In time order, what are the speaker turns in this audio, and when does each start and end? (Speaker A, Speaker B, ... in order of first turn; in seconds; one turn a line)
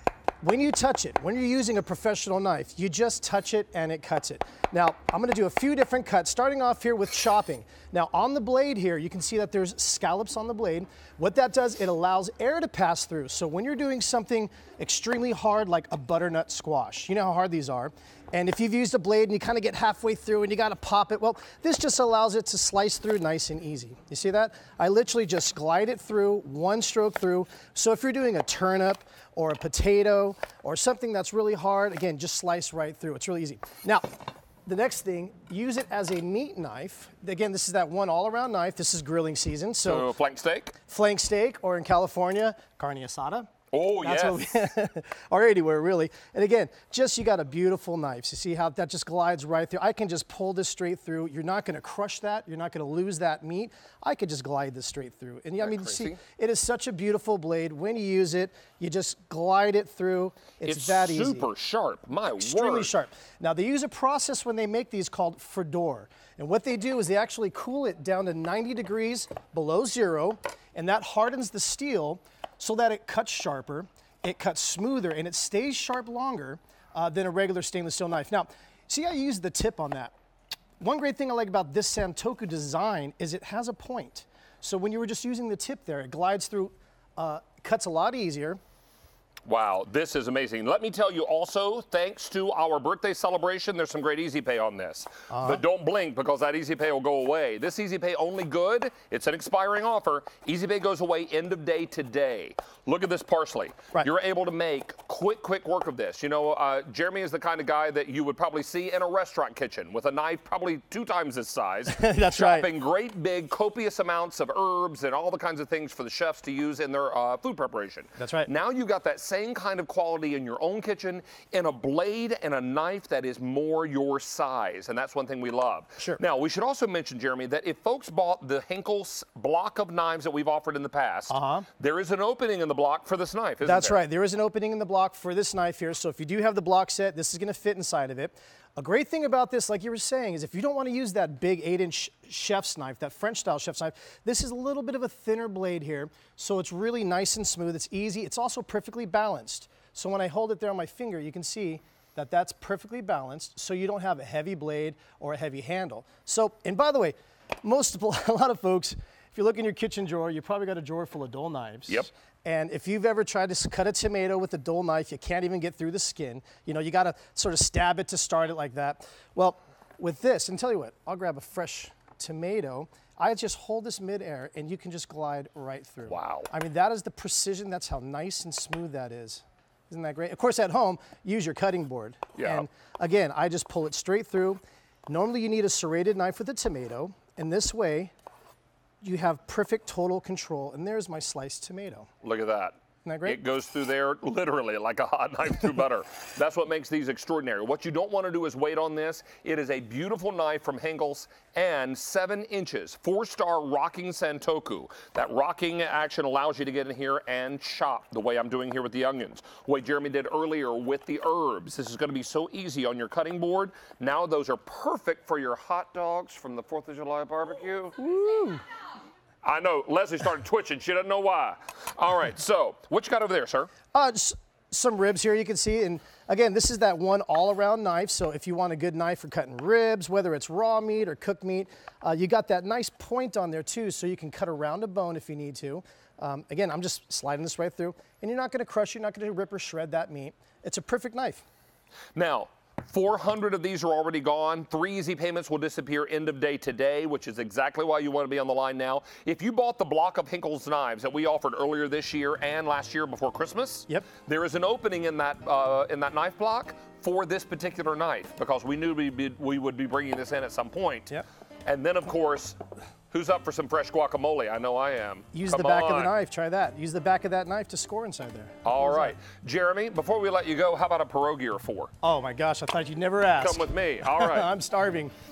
Speaker A: 0.4-34.1
Speaker A: 34.6-40.1
Speaker B: 39.9-40.7
Speaker A: 40.9-61.5
Speaker B: 43.7-44.4
Speaker B: 55.6-56.2
Speaker B: 60.6-62.9
Speaker A: 62.4-80.1
Speaker A: 80.8-88.6
Speaker B: 89.5-134.0
Speaker A: 95.3-95.6
Speaker A: 111.9-112.7
Speaker A: 118.2-118.5
Speaker A: 131.3-131.7
Speaker A: 133.6-188.1
Speaker B: 176.1-176.5
Speaker B: 182.4-182.7
Speaker A: 189.0-192.1
Speaker B: 192.2-218.0
Speaker A: 193.0-193.4
Speaker A: 218.0-218.6
Speaker B: 219.4-223.7
Speaker A: 223.9-241.4
Speaker B: 242.2-261.1
Speaker B: 261.6-262.6
Speaker B: 263.1-266.1
Speaker A: 265.3-269.1
Speaker B: 268.6-271.9
Speaker A: 272.0-275.1
Speaker B: 273.4-274.5